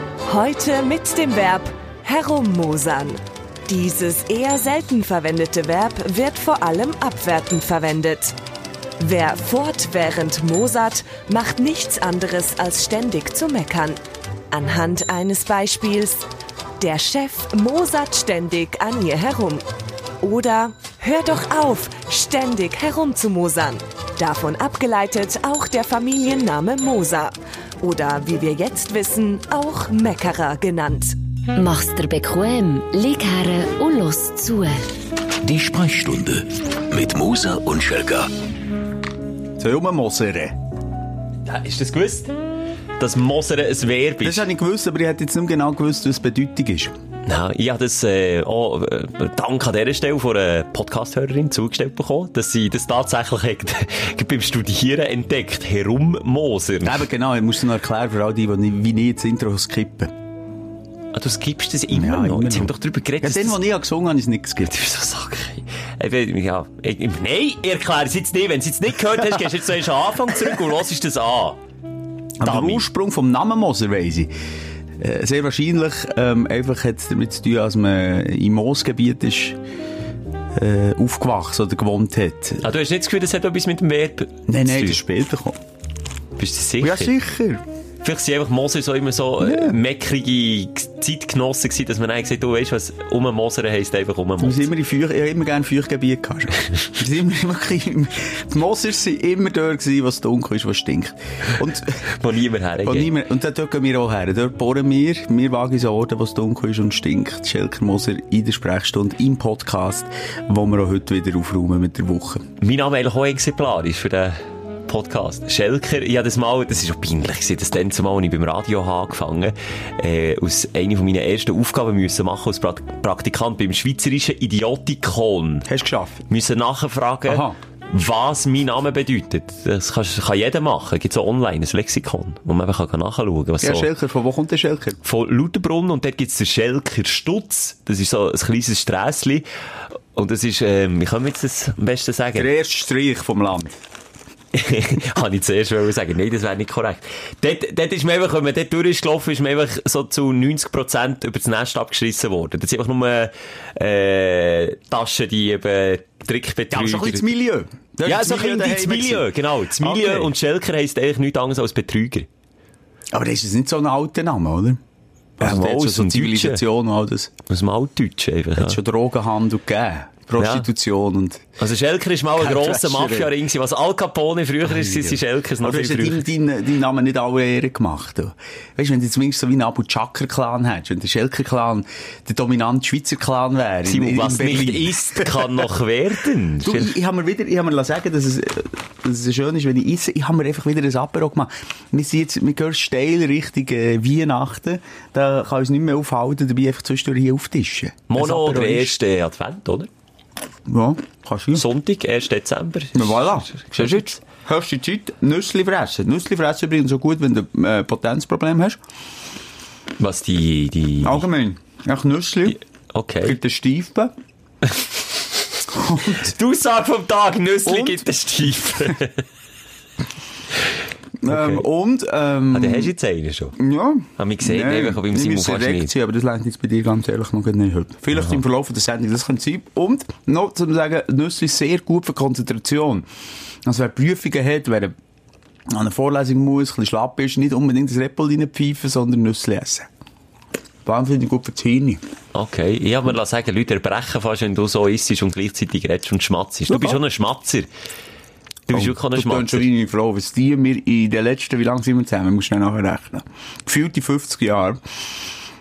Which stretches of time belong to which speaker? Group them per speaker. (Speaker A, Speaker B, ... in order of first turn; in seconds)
Speaker A: 0.3-8.3, 9.0-14.0, 14.5-16.3, 16.8-19.6, 20.2-31.2
Speaker B: 31.6-34.9
Speaker C: 35.4-38.3
Speaker D: 39.6-40.6, 44.2-47.0, 56.8-60.1, 61.9-64.8, 72.4-74.3, 75.0-79.6, 80.5-82.7, 84.5-85.6, 86.8-87.6, 89.4-89.8, 94.4-102.0, 102.8-112.5, 125.7-126.2, 127.3-127.6, 133.6-135.0, 142.3-143.8, 156.7-159.3, 159.8-160.3, 163.1-164.8, 165.4-167.3, 168.6-171.4, 172.4-173.3, 174.7-185.7, 186.6-199.0, 200.7-201.7, 202.9-208.8, 211.0-212.6, 213.2-214.1, 215.7-216.3, 217.7-218.0, 221.2-222.9, 223.6-233.1, 233.7-234.9, 235.7-239.9, 240.8-242.0, 246.7-247.0, 248.7-254.8
Speaker E: 41.5-42.3, 43.0-44.5, 47.3-57.0, 61.1-63.6, 64.7-71.6, 72.4-72.8, 82.6-85.0, 86.4-87.1, 88.0-94.7, 102.0-103.1, 112.6-114.4, 114.9-125.7, 126.3-133.9, 135.1-139.4, 140.2-142.5, 144.5-157.2, 158.1-162.3, 165.4-166.6, 167.5-168.8, 170.4-170.7, 171.6-176.2, 183.9-187.0, 198.1-199.9, 201.6-204.1, 210.0-211.3, 212.5-213.4, 214.6-215.2, 216.1-219.2, 221.3-221.6, 222.5-223.6, 224.2-225.9, 242.3-247.7, 248.7-249.7